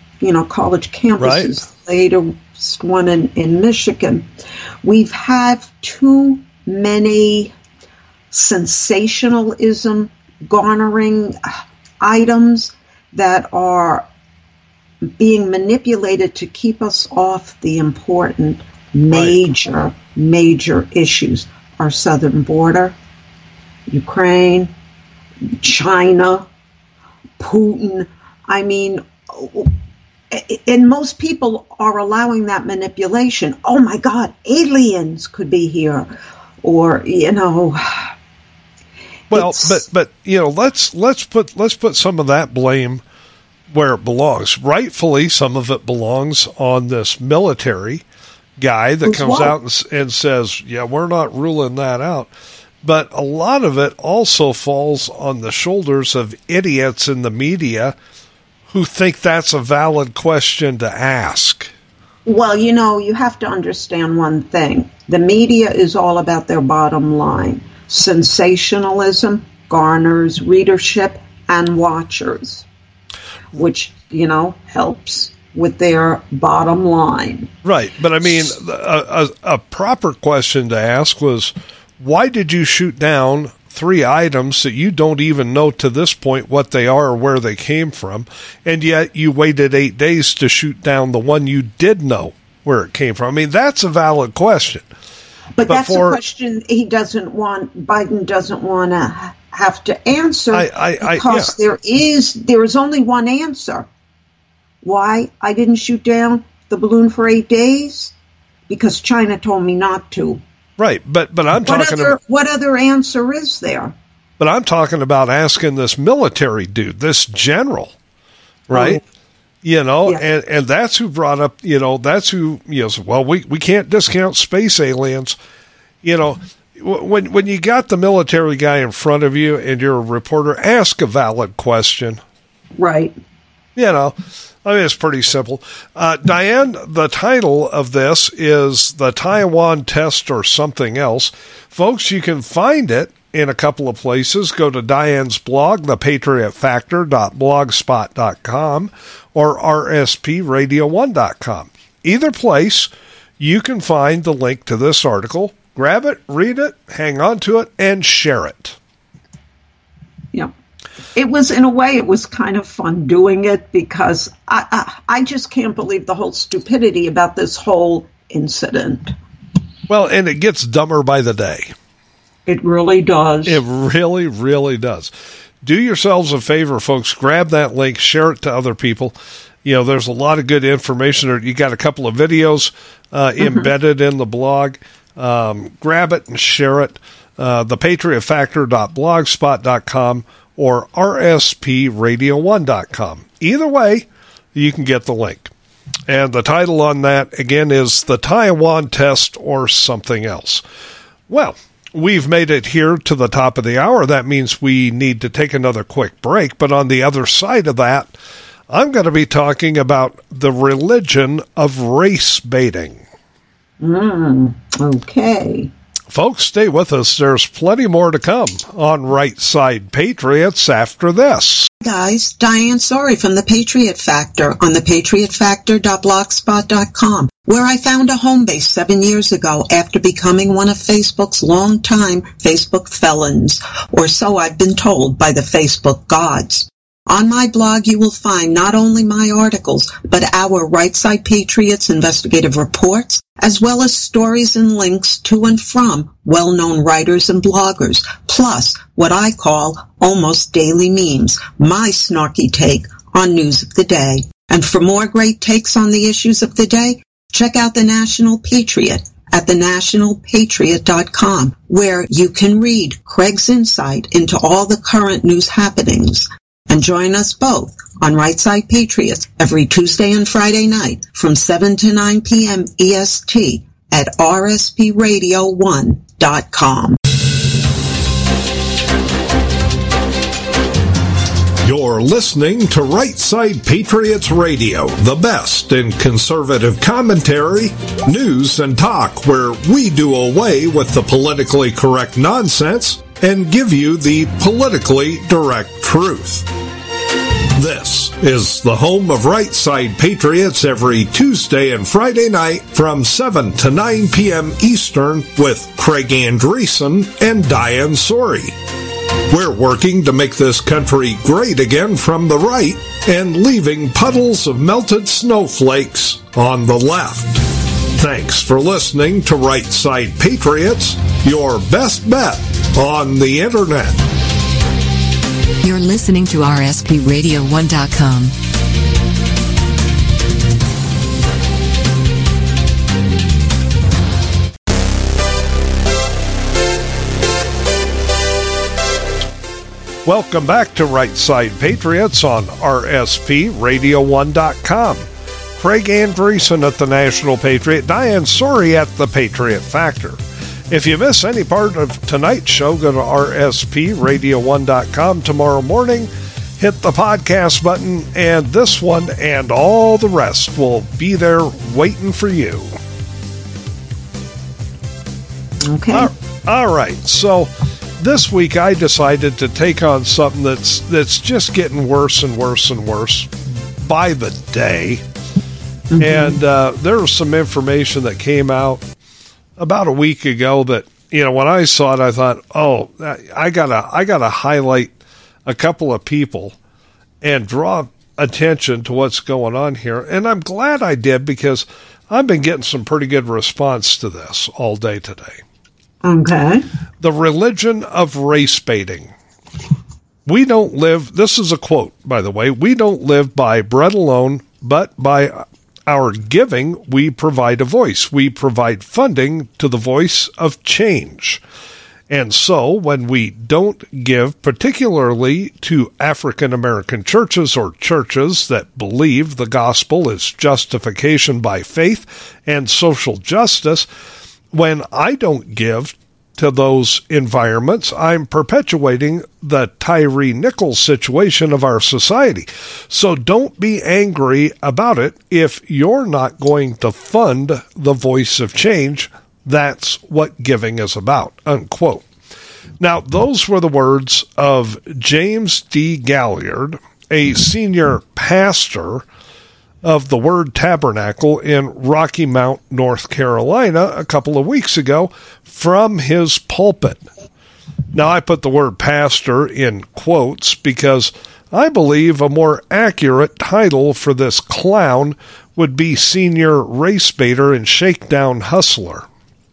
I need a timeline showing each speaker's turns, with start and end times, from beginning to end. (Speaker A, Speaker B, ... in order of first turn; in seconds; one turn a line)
Speaker A: 0.2-4.3
Speaker B: 1.2-1.5
Speaker A: 4.8-7.5
Speaker A: 8.3-14.1
Speaker A: 15.0-23.0
Speaker B: 19.1-19.4
Speaker A: 23.9-24.7
Speaker A: 25.4-26.5
Speaker A: 27.4-29.7
Speaker A: 30.3-38.1
Speaker A: 39.3-39.8
Speaker B: 39.3-43.0
Speaker B: 43.7-48.0
Speaker B: 48.6-52.3
Speaker A: 49.0-49.5
Speaker B: 52.8-58.0
Speaker B: 58.7-61.7
Speaker A: 62.2-72.7
Speaker A: 73.5-77.5
Speaker B: 77.6-94.8
Speaker A: 95.6-103.9
Speaker B: 95.7-96.2
Speaker B: 100.5-101.5
Speaker A: 104.8-108.1
Speaker A: 108.7-110.4
Speaker B: 110.8-112.2
Speaker A: 111.6-114.0
Speaker B: 114.4-118.0
Speaker B: 118.7-119.0
Speaker A: 118.7-119.0
Speaker B: 119.6-125.4
Speaker B: 126.0-132.2
Speaker A: 132.8-133.2
Speaker B: 133.8-158.8
Speaker A: 161.2-169.2
Speaker B: 169.9-171.7
Speaker A: 172.5-173.6
Speaker B: 173.5-175.1
Speaker B: 175.6-195.5
Speaker B: 196.1-200.6
Speaker B: 201.3-208.1
Speaker B: 208.7-213.0
Speaker A: 213.8-215.7
Speaker B: 216.1-221.7
Speaker A: 221.8-277.0
Speaker B: 281.6-296.5
Speaker B: 297.6-308.6
Speaker B: 309.3-324.0
Speaker C: 325.6-328.4
Speaker B: 340.0-345.1
Speaker B: 345.6-362.7
Speaker A: 365.6-366.1
Speaker B: 365.9-375.0
Speaker A: 375.9-376.4
Speaker B: 376.0-378.9
Speaker B: 379.6-384.9
Speaker B: 385.5-386.6
Speaker B: 387.2-395.4
Speaker A: 396.0-396.6
Speaker B: 397.0-399.1
Speaker B: 400.3-411.4
Speaker B: 412.1-423.9
Speaker B: 424.5-442.1
Speaker B: 442.8-449.1
Speaker B: 449.8-457.0
Speaker B: 457.9-469.1